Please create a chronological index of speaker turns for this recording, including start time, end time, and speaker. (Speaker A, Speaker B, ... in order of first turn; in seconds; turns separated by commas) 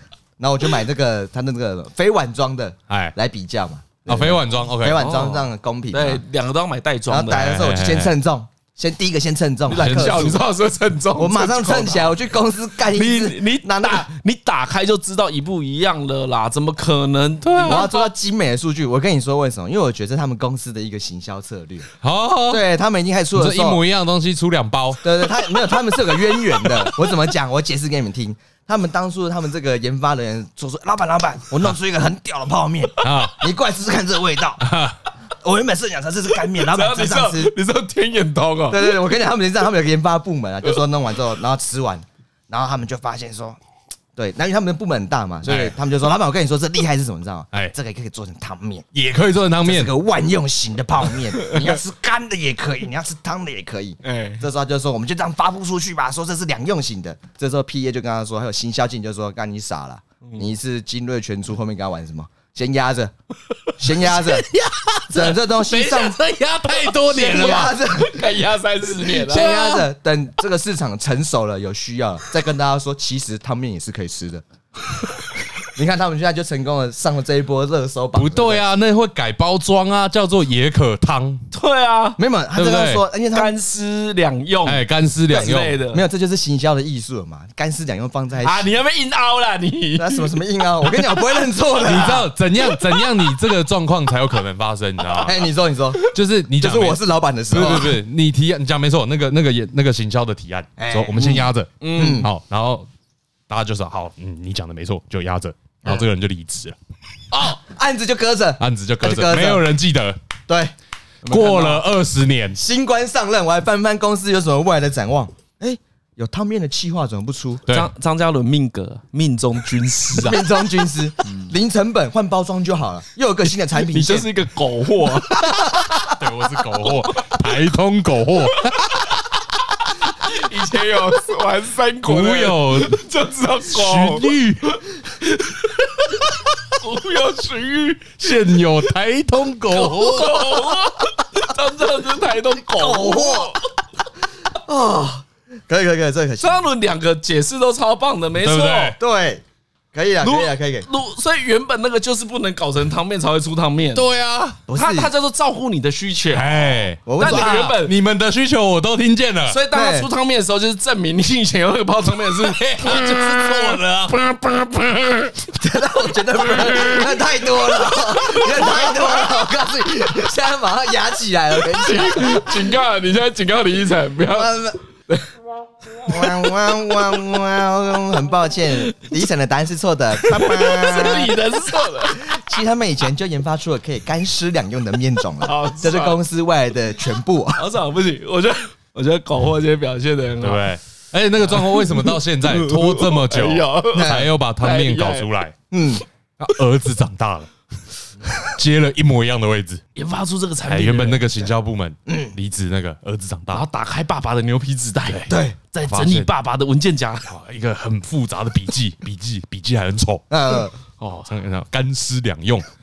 Speaker A: 0.4-6.2, Speaker B: 2.9-3.1, Speaker B: 4.0-5.3, Speaker C: 5.0-7.6, Speaker A: 7.1-10.4, Speaker B: 7.3-8.1, Speaker C: 9.7-12.1, Speaker B: 9.7-10.4, Speaker A: 11.2-14.1, Speaker C: 12.9-18.1, Speaker B: 17.4-17.9, Speaker A: 17.6-21.9, Speaker B: 22.0-22.6, Speaker A: 22.5-23.8, Speaker B: 23.4-25.3, Speaker A: 25.0-34.6, Speaker B: 33.0-33.4, Speaker B: 34.6-35.0, Speaker A: 35.3-37.5, Speaker C: 36.5-39.0, Speaker A: 38.7-43.6, Speaker A: 44.1-48.8, Speaker B: 45.4-45.7, Speaker B: 48.9-49.9, Speaker A: 49.6-63.1, Speaker C: 51.3-51.8, Speaker C: 54.0-54.4, Speaker C: 60.2-60.5, Speaker A: 63.8-64.5, Speaker B: 64.2-67.8, Speaker A: 65.1-66.2, Speaker C: 66.7-69.5, Speaker A: 67.0-68.3, Speaker B: 69.2-69.9, Speaker A: 69.2-74.4, Speaker A: 75.6-78.6, Speaker B: 78.1-81.4, Speaker C: 81.5-82.2, Speaker A: 82.2-83.5, Speaker B: 82.5-83.0, Speaker C: 83.3-86.0, Speaker B: 84.6-85.8, Speaker A: 85.9-88.7, Speaker C: 88.4-91.2, Speaker A: 90.0-92.3, Speaker B: 91.8-95.4, Speaker C: 92.7-93.4, Speaker A: 95.2-96.0, Speaker B: 96.0-102.9, Speaker A: 96.6-98.0, Speaker C: 97.5-97.8, Speaker A: 100.8-102.3, Speaker C: 101.8-102.2, Speaker B: 103.5-106.8, Speaker C: 107.3-107.6, Speaker A: 107.3-109.7, Speaker B: 108.6-110.2, Speaker A: 110.5-110.7, Speaker C: 111.2-111.8, Speaker B: 111.3-112.6, Speaker A: 112.6-117.6, Speaker C: 117.7-120.4, Speaker A: 120.1-124.3, Speaker C: 123.8-125.6, Speaker A: 125.3-126.2, Speaker B: 126.1-129.2, Speaker C: 130.1-138.6, Speaker B: 132.0-133.0, Speaker B: 133.7-134.8, Speaker B: 138.2-140.7, Speaker C: 139.7-143.7, Speaker A: 142.7-143.5, Speaker A: 144.4-146.6, Speaker C: 146.4-148.9, Speaker B: 148.4-149.0, Speaker A: 148.9-150.9, Speaker C: 150.2-154.0, Speaker B: 153.9-154.6, Speaker A: 154.7-155.1, Speaker C: 154.7-157.9, Speaker B: 156.3-159.6, Speaker A: 157.1-157.8, Speaker C: 159.5-165.3, Speaker A: 159.7-160.1, Speaker B: 162.4-164.2, Speaker A: 165.5-172.8, Speaker C: 166.6-167.0, Speaker C: 168.6-168.8, Speaker C: 171.7-174.6, Speaker A: 174.3-174.8, Speaker C: 176.0-176.5, Speaker A: 176.1-181.3, Speaker C: 180.2-182.4, Speaker A: 182.1-187.6, Speaker C: 185.4-186.2, Speaker C: 187.6-190.7, Speaker B: 190.4-195.6, Speaker C: 191.4-195.3, Speaker A: 193.9-194.3, Speaker A: 195.7-196.0, Speaker B: 196.4-197.5, Speaker B: 198.2-199.8, Speaker C: 199.9-201.3, Speaker B: 200.7-203.6, Speaker A: 202.1-202.3, Speaker C: 203.5-207.3, Speaker B: 205.1-206.3, Speaker A: 205.3-205.6, Speaker B: 207.3-210.2, Speaker A: 210.3-210.7, Speaker C: 211.0-211.3, Speaker B: 211.2-212.7